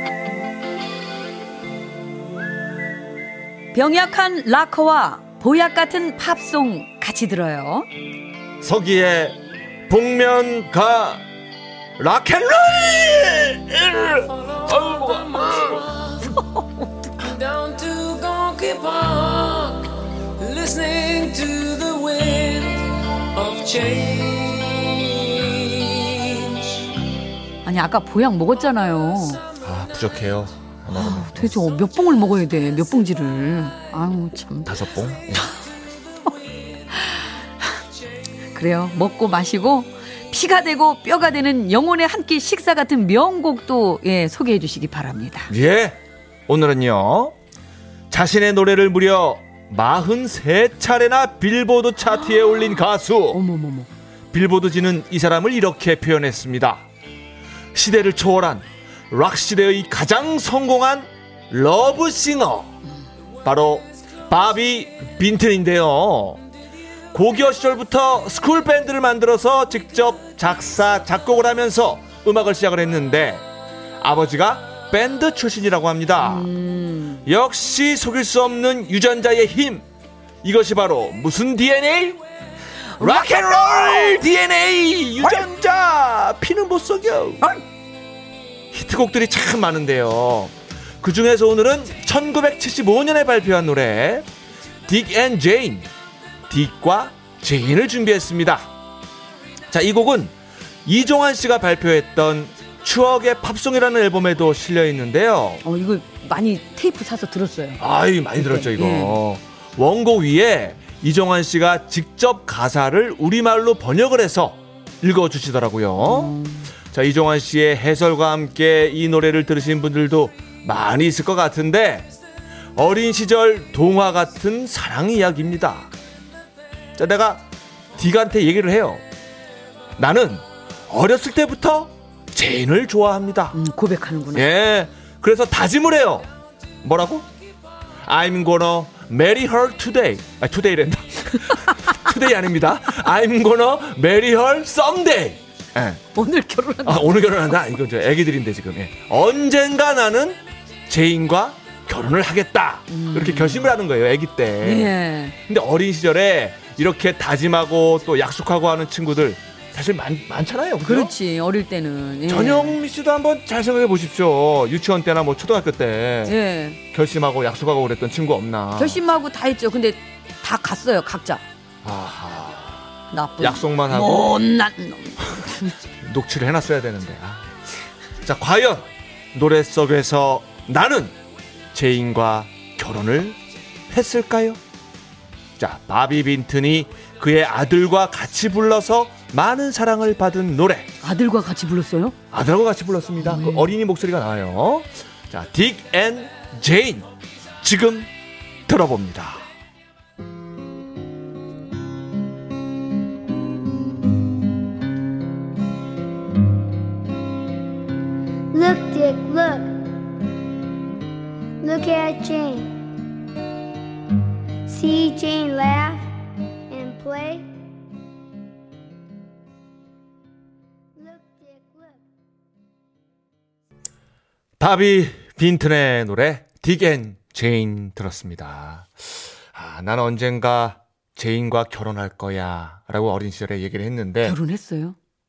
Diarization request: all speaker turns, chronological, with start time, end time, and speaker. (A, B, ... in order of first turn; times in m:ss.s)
0:03.7-0:07.9 A
0:08.6-0:11.2 B
0:12.0-0:15.9 B
0:17.2-0:26.8 C
0:27.6-0:29.4 A
0:29.6-0:31.7 B
0:30.9-0:34.7 A
0:34.6-0:35.5 B
0:36.9-0:37.6 A
0:38.5-0:45.5 A
0:45.5-0:47.3 B
0:48.1-0:53.4 B
0:53.3-0:53.9 A
0:54.3-0:56.8 B
0:57.7-1:02.8 B
1:03.4-1:06.4 B
1:07.1-1:13.4 B
1:14.0-1:16.5 B
1:16.2-1:17.2 A
1:17.2-1:19.8 B
1:20.4-1:22.2 B
1:23.0-1:24.2 A
1:23.0-1:27.5 B
1:28.7-1:34.3 B
1:34.8-1:35.9 B
1:36.5-1:38.7 B
1:39.7-1:45.6 B
1:45.6-1:47.8 A
1:47.8-1:56.4 B
1:48.4-1:49.2 A
1:56.0-1:56.7 A
1:56.9-2:02.1 B
2:02.7-2:05.9 B
2:07.0-2:07.4 B
2:08.0-2:09.0 B
2:10.0-2:13.6 B
2:13.5-2:14.4 A
2:14.3-2:16.3 B
2:16.8-2:17.3 B
2:18.0-2:26.0 B
2:26.1-2:27.4 A
2:26.8-2:41.1 B
2:32.9-2:33.8 A
2:34.6-2:35.4 A
2:40.8-2:42.8 A
2:42.3-2:46.4 B
2:46.2-2:46.8 A
2:46.9-2:49.0 B
2:48.8-2:51.4 A
2:51.8-2:54.4 B
2:53.1-2:55.8 A
2:56.0-2:57.6 B
2:58.2-3:01.1 B
3:01.7-3:03.4 B
3:03.9-3:04.6 B
3:05.6-3:10.9 B
3:11.0-3:12.2 A
3:12.3-3:17.1 B
3:13.2-3:13.7 A
3:17.6-3:18.1 B
3:18.7-3:19.4 B
3:28.5-3:30.0 D
3:31.6-3:33.0 D
3:34.6-3:37.5 D
3:41.0-3:42.0 D
3:44.6-3:54.4 B
3:54.2-3:55.0 A